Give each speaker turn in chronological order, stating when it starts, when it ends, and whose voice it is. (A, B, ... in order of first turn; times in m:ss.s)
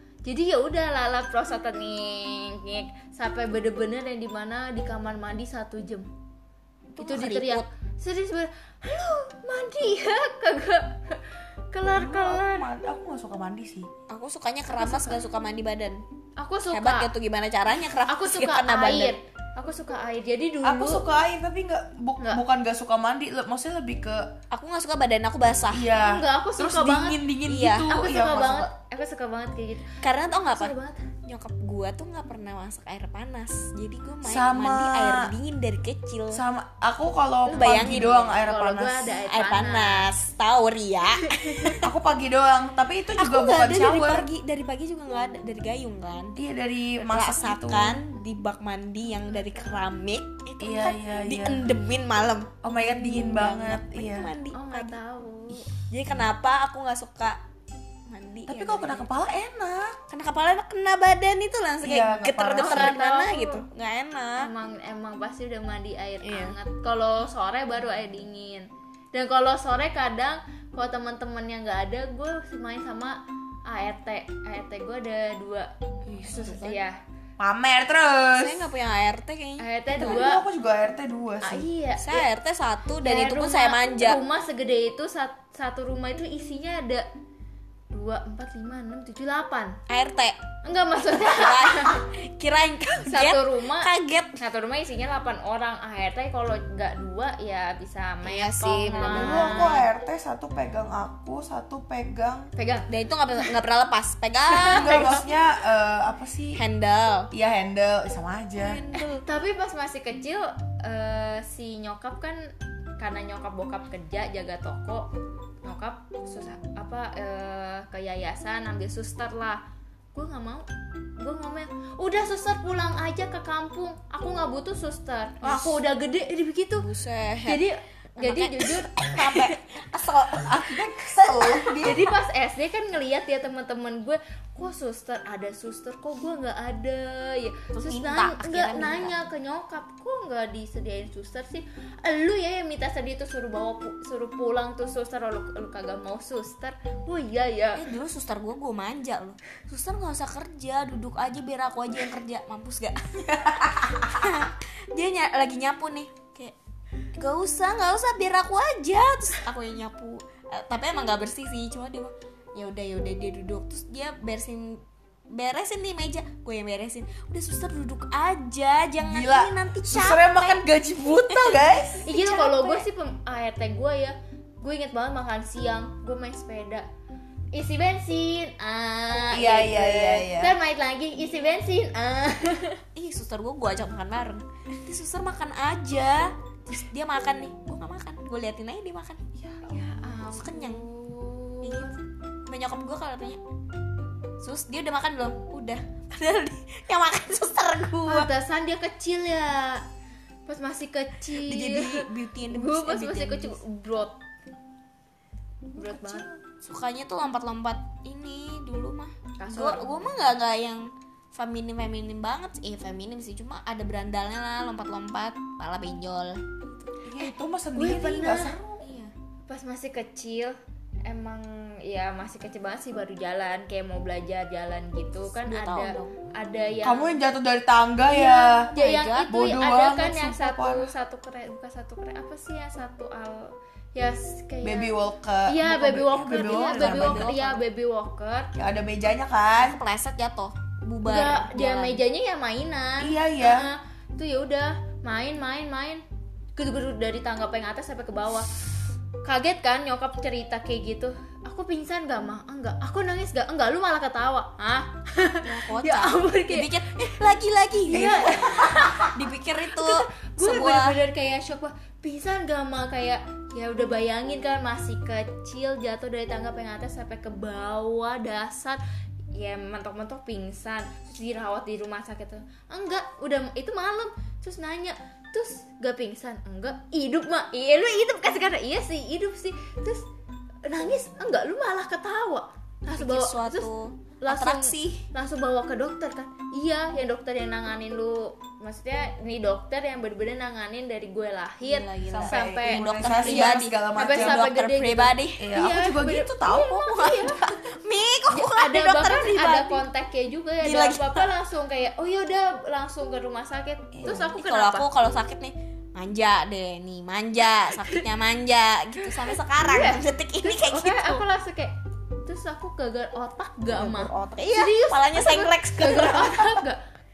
0:00.2-0:06.1 A
0:06.9-0:07.7 B
0:07.0-0:12.7 A
0:12.0-0:13.9 C
0:14.1-0:16.0 B
0:14.7-0:15.2 A
0:16.4-0:17.1 A
0:16.7-0:19.2 B
0:17.9-0:21.1 A
0:20.6-0:24.4 C
0:24.5-0:25.9 B
0:25.7-0:28.7 C
0:26.0-0:27.2 A
0:27.5-0:28.0 B
0:27.8-0:31.1 A
0:30.0-0:36.4 B
0:34.2-0:35.3 C
0:36.3-0:39.1 C
0:37.5-0:38.4 B
0:37.7-0:40.1 A
0:39.2-0:41.9 B
0:41.4-0:41.7 A
0:41.8-0:44.3 C
0:43.2-0:46.4 B
0:46.4-0:48.1 C
0:47.0-0:55.0 B
0:49.4-0:49.7 A
0:50.6-0:51.7 C
0:52.6-0:54.3 C
0:54.5-0:55.7 A
0:55.8-0:57.4 B
0:58.1-0:59.1 B
0:58.5-1:00.0 C
1:00.1-1:04.5 B
1:01.8-1:03.0 C
1:02.5-1:03.6 A
1:04.4-1:15.7 A
1:06.2-1:06.6 B
1:16.1-1:16.8 B
1:16.2-1:17.0 A
1:17.4-1:18.7 C
1:18.3-1:20.2 B
1:19.6-1:20.4 A
1:20.0-1:21.7 C
1:21.4-1:22.3 A
1:22.0-1:24.2 B
1:23.0-1:27.1 A
1:27.9-1:29.8 A
1:29.9-1:30.4 B
1:30.6-1:32.0 A
1:31.1-1:34.4 B
1:33.1-1:39.8 A
1:38.2-1:39.9 B
1:38.9-1:42.5 C
1:42.6-1:43.5 A
1:42.9-1:45.2 B
1:44.5-1:45.1 A
1:44.7-1:46.6 C
1:46.5-1:47.3 B
1:47.3-1:48.8 C
1:48.6-1:49.2 B
1:49.0-1:55.1 A
1:55.6-1:59.6 A
2:00.1-2:00.7 A
2:01.2-2:06.9 A
2:05.4-2:05.8 B
2:06.8-2:07.6 B
2:07.4-2:09.2 A
2:08.2-2:12.0 B
2:09.2-2:12.1 C
2:11.8-2:27.9 A
2:17.7-2:19.2 B
2:27.7-2:36.6 B
2:37.1-2:52.8 B
2:49.0-2:52.1 C
2:52.1-2:56.9 A
2:57.5-3:02.8 A
2:59.3-3:00.6 C
3:03.0-3:09.2 B
3:09.4-3:10.0 C
3:09.7-3:12.0 A
3:10.2-3:10.9 B
3:11.6-3:13.4 B
3:14.4-3:18.3 B
3:18.1-3:19.8 A
3:20.5-3:24.2 A
3:21.4-3:23.6 B
3:25.8-3:26.3 A
3:25.9-3:36.9 B
3:29.4-3:29.9 A
3:37.0-3:38.8 C
3:37.8-3:38.6 A
3:38.8-3:39.1 B
3:39.5-3:47.2 A
3:45.4-3:46.2 B
3:46.8-3:48.7 C
3:48.1-3:55.0 A
3:48.7-3:49.4 B
3:49.2-3:50.9 C
3:54.6-3:57.3 C
3:55.5-3:58.5 A
3:56.3-3:57.6 B
3:58.6-3:59.8 C
3:59.6-4:02.0 B
4:01.0-4:06.0 A
4:03.0-4:03.7 C
4:06.6-4:08.5 A
4:09.2-4:16.8 A
4:15.4-4:21.0 B
4:17.9-4:19.2 A
4:17.9-4:18.8 C
4:19.7-4:28.8 A
4:29.3-4:40.1 A
4:40.7-4:43.7 A
4:42.9-4:45.1 B
4:44.2-4:57.4 A
4:51.6-4:55.5 B
4:52.1-4:54.4 C
4:55.4-4:57.0 C
4:56.5-4:59.8 B
4:58.3-5:04.9 A
5:00.6-5:01.3 B
5:03.9-5:04.3 C
5:04.1-5:11.2 B
5:07.6-5:08.0 A
5:09.0-5:16.8 A
5:13.7-5:14.4 C
5:14.1-5:16.6 B